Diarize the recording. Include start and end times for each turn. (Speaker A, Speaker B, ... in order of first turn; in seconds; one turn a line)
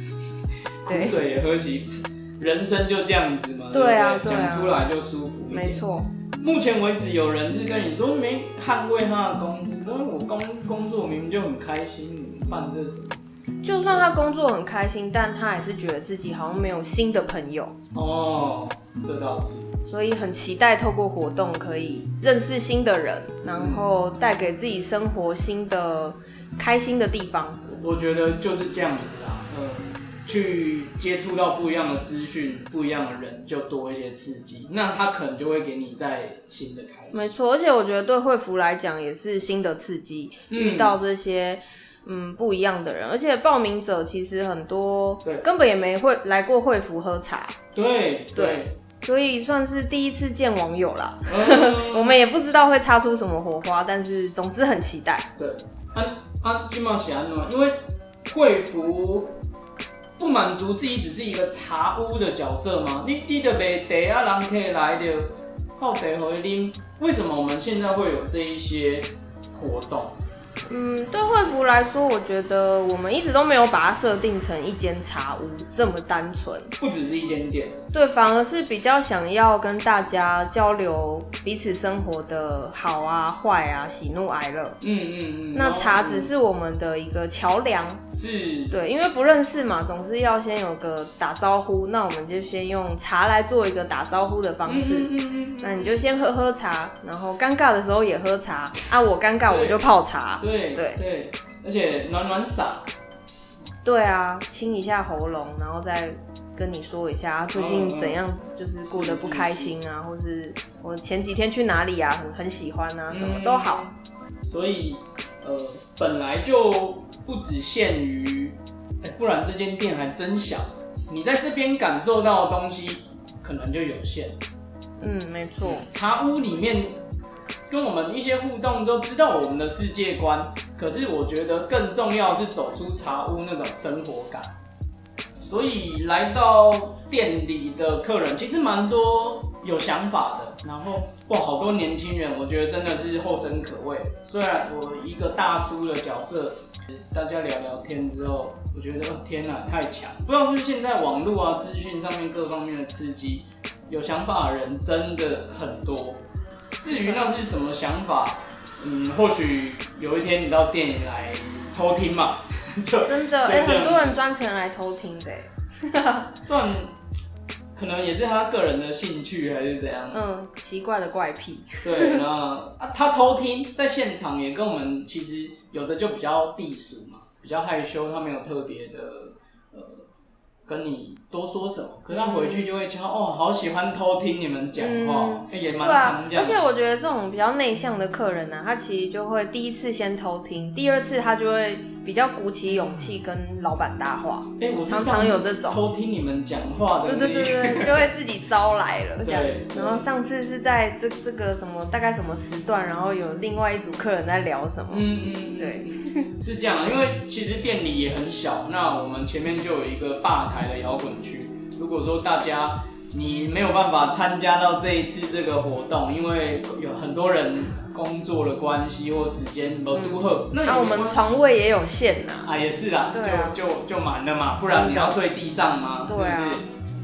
Speaker A: 0.8-5.8
Speaker B: 0.8-1.1
Speaker B: 3.7-4.8
Speaker B: 5.5-6.1
Speaker A: 6.4-13.2
Speaker B: 13.6-17.7
Speaker A: 13.8-14.1
Speaker A: 17.9-19.7
Speaker B: 19.8-27.6
Speaker A: 23.5-23.9
Speaker A: 27.6-37.3
Speaker B: 37.1-47.5
Speaker A: 40.5-41.0
Speaker A: 47.7-48.7
Speaker B: 48.4-55.3
Speaker A: 51.3-52.2
Speaker A: 55.4-57.7
Speaker A: 58.2-59.4
Speaker A: 60.2-70.2
Speaker B: 70.7-76.7
Speaker A: 76.8-77.8
Speaker B: 77.9-84.8
Speaker A: 84.8-86.3
Speaker B: 85.5-88.0
Speaker A: 88.1-88.8
Speaker B: 88.7-101.0
Speaker A: 94.7-95.9
Speaker A: 99.5-99.8
Speaker A: 100.4-102.9
Speaker B: 103.8-113.9
Speaker A: 107.5-108.2
Speaker A: 108.9-109.7
Speaker A: 113.1-124.4
Speaker B: 125.0-125.8
Speaker A: 125.6-127.0
Speaker A: 127.7-134.6
Speaker A: 135.4-156.2
Speaker A: 156.8-164.2
Speaker B: 157.1-157.4
Speaker B: 163.0-166.3
Speaker A: 166.4-166.9
Speaker A: 167.7-170.2
Speaker B: 170.1-172.2
Speaker A: 171.8-180.1
Speaker A: 180.7-186.6
Speaker B: 182.1-182.7
Speaker B: 184.8-195.8
Speaker A: 194.6-198.1
Speaker B: 197.0-206.3
Speaker A: 199.2-200.1
Speaker A: 204.9-221.3
Speaker B: 219.9-222.5
Speaker A: 222.4-226.7
Speaker B: 223.1-223.6
Speaker B: 224.7-225.2
Speaker B: 226.1-226.6